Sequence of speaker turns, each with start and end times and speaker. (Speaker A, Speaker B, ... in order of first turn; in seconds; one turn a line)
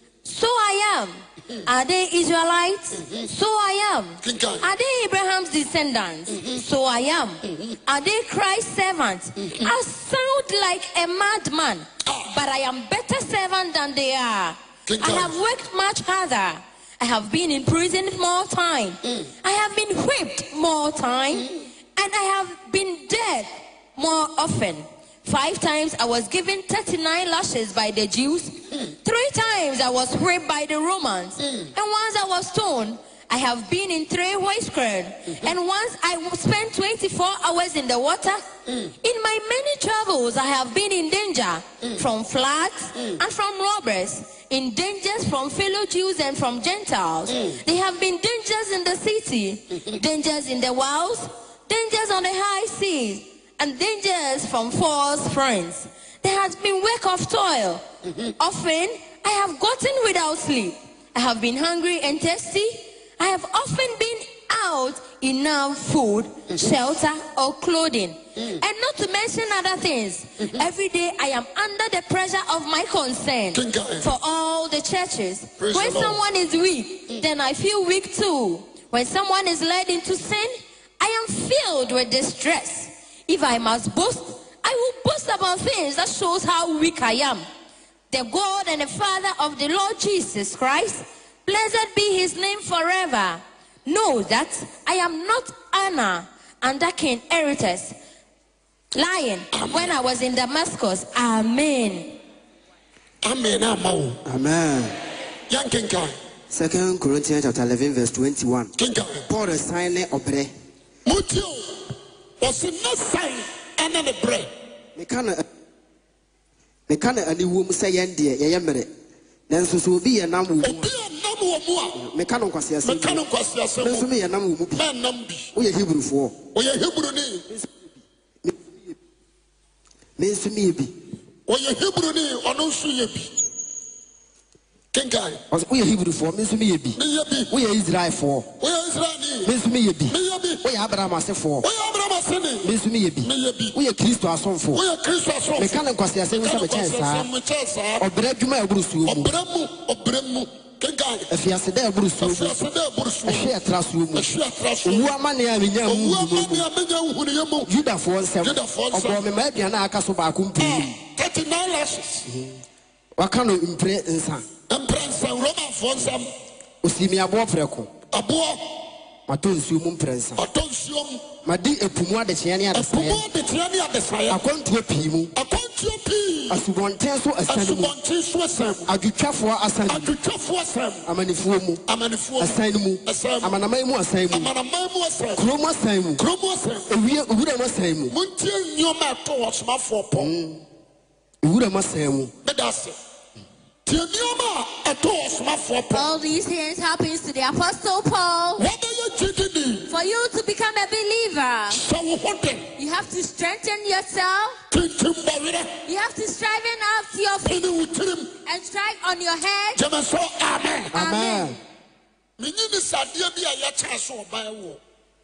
Speaker A: 0.2-38.4
Speaker B: 4.2-4.7
Speaker B: 6.3-6.6
Speaker B: 7.5-7.8
Speaker B: 9.4-9.7
Speaker B: 12.1-12.3
Speaker B: 14.9-15.3
Speaker A: 39.0-57.8
Speaker B: 47.3-47.6
Speaker B: 58.1-58.3
Speaker A: 58.4-87.4
Speaker B: 73.5-74.1
Speaker B: 75.6-76.2
Speaker A: 88.1-97.9
Speaker A: 98.9-102.2
Speaker B: 99.5-99.9
Speaker B: 103.2-104.2
Speaker C: 104.2-105.0
Speaker B: 105.5-106.1
Speaker C: 106.5-108.7
Speaker B: 108.8-109.3
Speaker C: 109.3-110.5
Speaker B: 111.0-111.6
Speaker B: 112.4-114.5
Speaker C: 115.0-115.4
Speaker C: 116.9-118.9
Speaker C: 119.5-120.9
Speaker B: 120.6-122.0
Speaker C: 121.9-123.2
Speaker B: 122.8-124.1
Speaker C: 123.8-124.8
Speaker B: 124.7-125.5
Speaker C: 125.5-126.4
Speaker B: 126.5-127.5
Speaker C: 128.4-128.9
Speaker C: 130.2-130.9
Speaker B: 131.5-133.4
Speaker B: 134.9-135.4
Speaker C: 135.5-138.5
Speaker B: 137.0-137.5
Speaker B: 138.6-139.5
Speaker C: 139.4-141.7
Speaker B: 140.1-140.6
Speaker B: 141.6-142.7
Speaker C: 142.6-144.8
Speaker B: 143.2-143.8
Speaker B: 144.7-148.1
Speaker C: 145.6-147.3
Speaker C: 148.0-149.3
Speaker B: 149.1-151.3
Speaker C: 151.3-152.6
Speaker B: 152.2-153.5
Speaker C: 153.2-154.3
Speaker B: 154.1-155.1
Speaker C: 154.8-156.7
Speaker B: 155.8-157.7
Speaker C: 157.6-161.0
Speaker B: 158.4-159.2
Speaker B: 160.6-162.2
Speaker C: 162.2-162.6
Speaker C: 163.2-164.4
Speaker B: 164.7-166.3
Speaker C: 166.8-167.9
Speaker B: 168.1-168.9
Speaker C: 169.3-170.4
Speaker B: 170.4-171.3
Speaker C: 171.4-173.2
Speaker B: 172.7-174.4
Speaker C: 174.3-175.3
Speaker B: 175.3-176.6
Speaker C: 176.5-177.9
Speaker B: 177.4-178.9
Speaker C: 178.9-180.1
Speaker B: 179.9-181.1
Speaker C: 181.1-181.8
Speaker B: 181.9-183.6
Speaker C: 182.4-184.5
Speaker B: 184.3-185.5
Speaker C: 185.3-186.2
Speaker B: 186.2-186.9
Speaker C: 186.9-188.1
Speaker B: 188.1-190.3
Speaker C: 190.2-190.6
Speaker C: 191.4-192.3
Speaker B: 192.4-192.9
Speaker B: 193.8-196.1
Speaker A: 195.9-198.7
Speaker B: 198.6-199.9
Speaker A: 199.9-201.8
Speaker B: 201.7-202.7
Speaker A: 202.8-204.6
Speaker B: 204.7-205.7
Speaker A: 205.8-207.7
Speaker B: 207.4-208.3
Speaker A: 208.4-209.8
Speaker B: 209.7-210.9
Speaker C: 210.9-211.6
Speaker A: 210.9-211.6
Speaker B: 212.4-214.8